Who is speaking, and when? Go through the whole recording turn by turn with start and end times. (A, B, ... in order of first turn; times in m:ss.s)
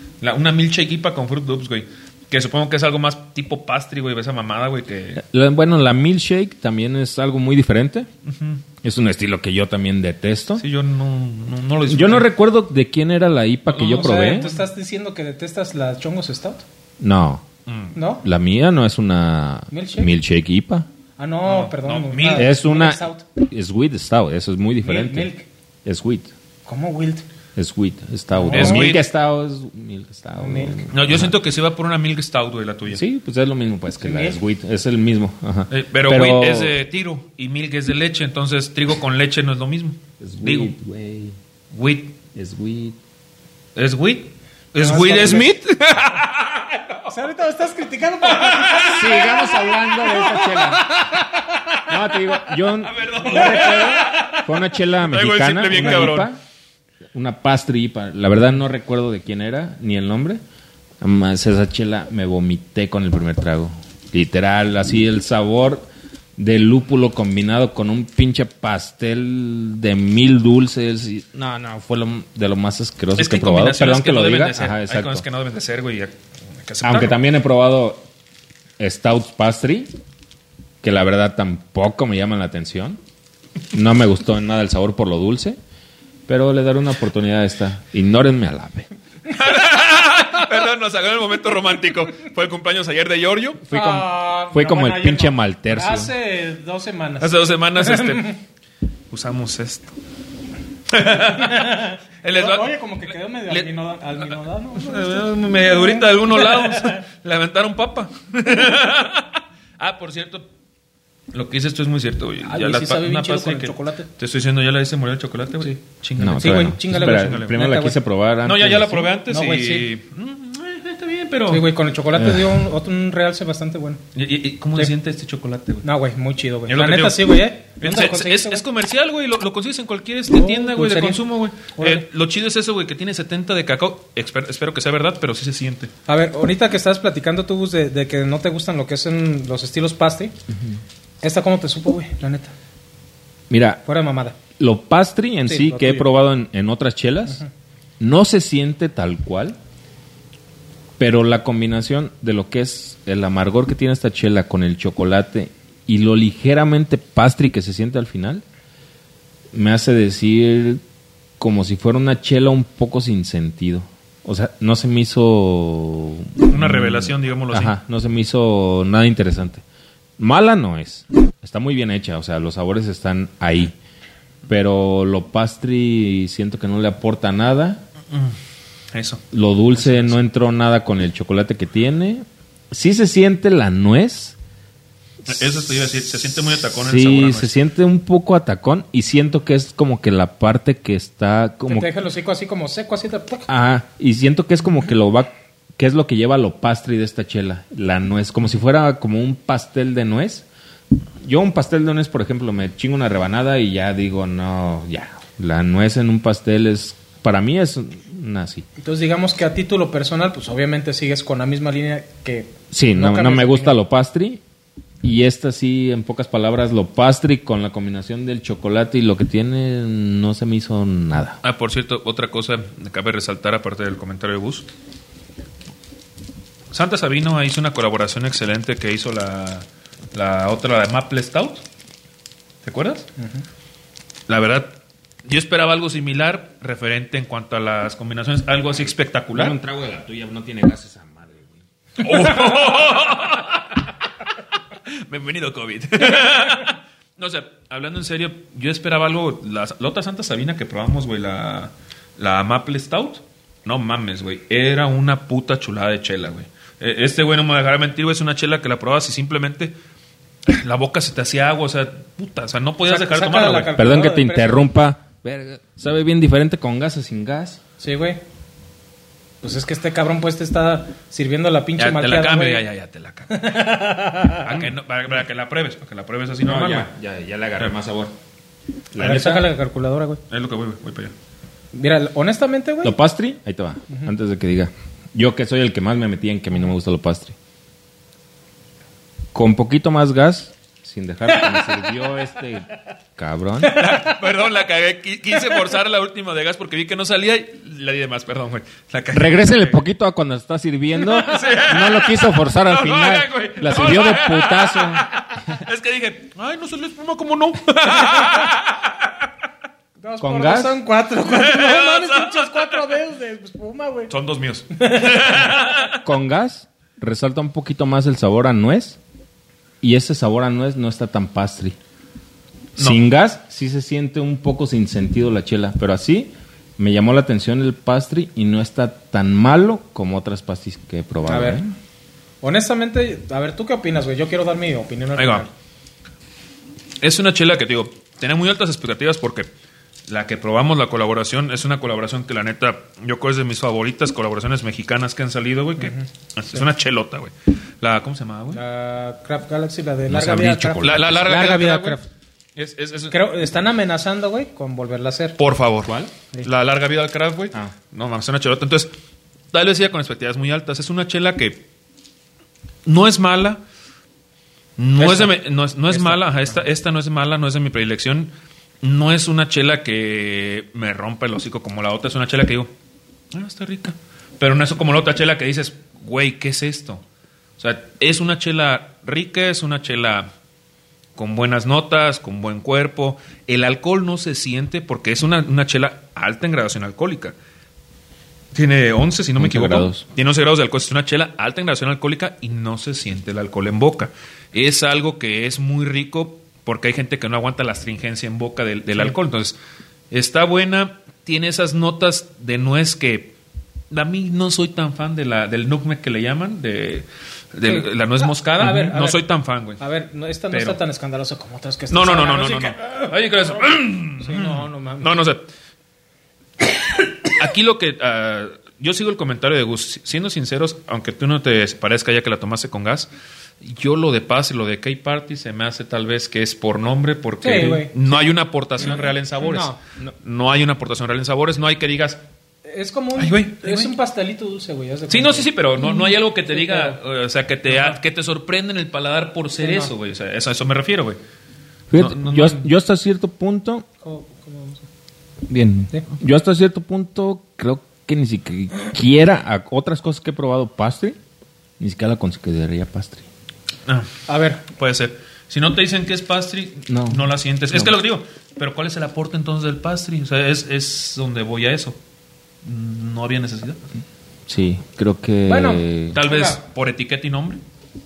0:00.2-0:05.2 A
0:05.2-0:08.1 B
0:08.3-0:08.6 A
0:08.8-0:10.6 B
0:10.6-0:12.3 A
0:11.9-0:14.5 B
0:13.7-0:14.7 A
0:13.9-0:16.6 C
0:17.0-0:17.5 B
0:17.7-0:18.0 A
0:18.0-0:18.2 C
0:18.2-0:20.9 B
0:19.7-0:20.1 C
0:21.2-0:23.2 C
0:21.4-0:22.5 A
0:22.3-0:25.3 B
0:24.8-0:25.5 C
0:25.8-0:26.3 B
0:26.7-0:27.2 C
0:27.6-0:31.4 B
0:28.4-0:28.9 C
0:28.5-0:29.0 A
0:30.4-0:30.9 C
0:30.9-0:33.0 A
0:32.9-0:36.8 B
0:34.0-0:34.4 C
0:35.7-0:40.7 A
0:40.2-0:41.4 B
0:41.7-0:42.2 A
0:42.3-0:43.0 B
0:43.8-0:47.2 A
0:44.8-0:45.5 C
0:44.9-0:45.4 B
0:47.1-0:51.4 C
0:48.2-0:51.2 A
0:48.8-0:51.0 B
0:51.9-0:56.4 B
0:52.1-0:54.5 A
0:53.5-0:54.0 C
0:55.0-0:56.3 A
0:57.1-1:00.4 B
1:01.0-1:15.2 B
1:13.2-1:17.2 A
1:16.8-1:18.0 B
1:18.8-1:19.9 B
1:20.8-1:23.0 B
1:23.7-1:25.6 B
1:26.3-1:28.9 B
1:29.3-1:33.6 A
1:33.6-1:36.1 B
1:33.7-1:38.4 C
1:37.2-1:38.4 A
1:39.1-1:39.9 A
1:40.9-1:43.7 A
1:41.2-1:47.0 C
1:44.8-1:50.5 A
1:51.3-1:57.7 A
1:52.4-1:54.1 C
1:56.2-1:59.1 B
1:56.4-1:58.0 C
1:58.4-2:01.7 A
1:59.3-1:59.9 C
2:01.5-2:04.0 C
2:02.2-2:02.7 B
2:04.2-2:05.8 A
2:05.8-2:08.6 C
2:06.7-2:15.9 A
2:10.3-2:12.1 C
2:16.1-2:20.3 C
2:21.2-2:22.5 C
2:23.5-2:23.8 B
2:23.8-2:24.4 C
2:24.6-2:27.4 B
2:25.5-2:26.1 C
2:28.0-2:29.6 B
2:31.0-2:38.4 B
2:39.5-2:40.8 B
2:41.4-2:49.6 B
2:46.5-2:47.8 A
2:50.2-2:53.8 B
2:54.5-2:57.8 B
2:58.1-2:58.4 A
2:58.9-3:00.2 A
2:59.3-3:04.4 B
3:05.3-3:07.5 A
3:06.6-3:11.9 B
3:11.7-3:13.5 C
3:13.5-3:20.5 B
3:21.2-3:28.6 B
3:28.8-3:33.8 C
3:32.7-3:34.4 B
3:35.0-3:41.4 B
3:41.4-3:44.7 A
3:46.7-3:51.6 A
3:52.6-3:53.1 A
3:53.2-3:53.4 C
3:54.3-3:59.6 A
3:59.3-4:01.6 B
4:02.0-4:03.8 A
4:04.9-4:19.7 A
4:20.5-4:23.7 A
4:22.9-4:24.7 C
4:23.8-4:27.6 B
4:27.8-4:28.2 C
4:29.4-4:32.6 C
4:31.8-4:33.4 A
4:33.3-4:34.6 C
4:34.4-4:36.9 A
4:36.4-4:38.1 B
4:38.9-4:39.5 B
4:39.0-4:40.2 C
4:40.3-4:41.1 A
4:41.7-4:43.0 C
4:42.8-4:47.4 B
4:49.3-4:53.8 B
4:51.3-4:51.7 C
4:53.6-4:54.1 C
4:53.7-4:59.8 A
4:59.1-5:05.1 B
5:01.1-5:09.2 A
5:10.0-5:14.1 C
5:10.2-5:10.8 B
5:11.2-5:13.0 A
5:14.1-5:16.0 A
5:14.7-5:15.6 C
5:16.0-5:19.0 B
5:19.8-5:21.8 B
5:22.8-5:31.7 B
5:31.3-5:31.6 C
5:32.4-5:35.5 C
5:35.2-5:35.5 A
5:37.0-5:39.5 A
5:40.1-5:48.6 A
5:45.8-5:46.1 C
5:48.5-5:52.1 C
5:50.1-5:51.2 B
5:50.8-5:52.0 A
5:52.6-5:53.2 A
5:53.1-5:55.4 C
5:55.4-5:58.9 A
5:55.8-5:56.1 B
5:59.5-6:01.6 A
6:02.9-6:03.6 A
6:04.8-6:12.7 A
6:05.0-6:06.6 C
6:13.3-6:17.0 A
6:17.6-6:20.3 A
6:21.2-6:27.4 A
6:28.5-6:39.6 A
6:29.4-6:30.0 B
6:40.1-6:43.3 A
6:43.9-6:49.8 A
6:47.6-6:49.2 C
6:49.8-6:53.1 C
6:50.5-6:50.8 A
6:51.9-6:55.4 A
6:54.2-6:55.2 C
6:57.3-7:03.1 A
7:03.6-7:12.2 A
7:07.4-7:08.2 C
7:08.8-7:09.8 C
7:12.6-7:17.0 C
7:13.2-7:13.9 A
7:15.1-7:21.2 A
7:17.7-7:18.0 C
7:19.6-7:19.9 C
7:21.9-7:23.9 B
7:21.9-7:22.7 A
7:24.0-7:24.9 C
7:25.5-7:31.2 B
7:31.8-7:33.3 B
7:34.3-7:34.6 C
7:34.8-7:42.0 A
7:36.9-7:38.0 B
7:42.6-7:43.8 A
7:44.5-7:46.2 B
7:45.5-7:46.6 C
7:46.1-7:47.6 A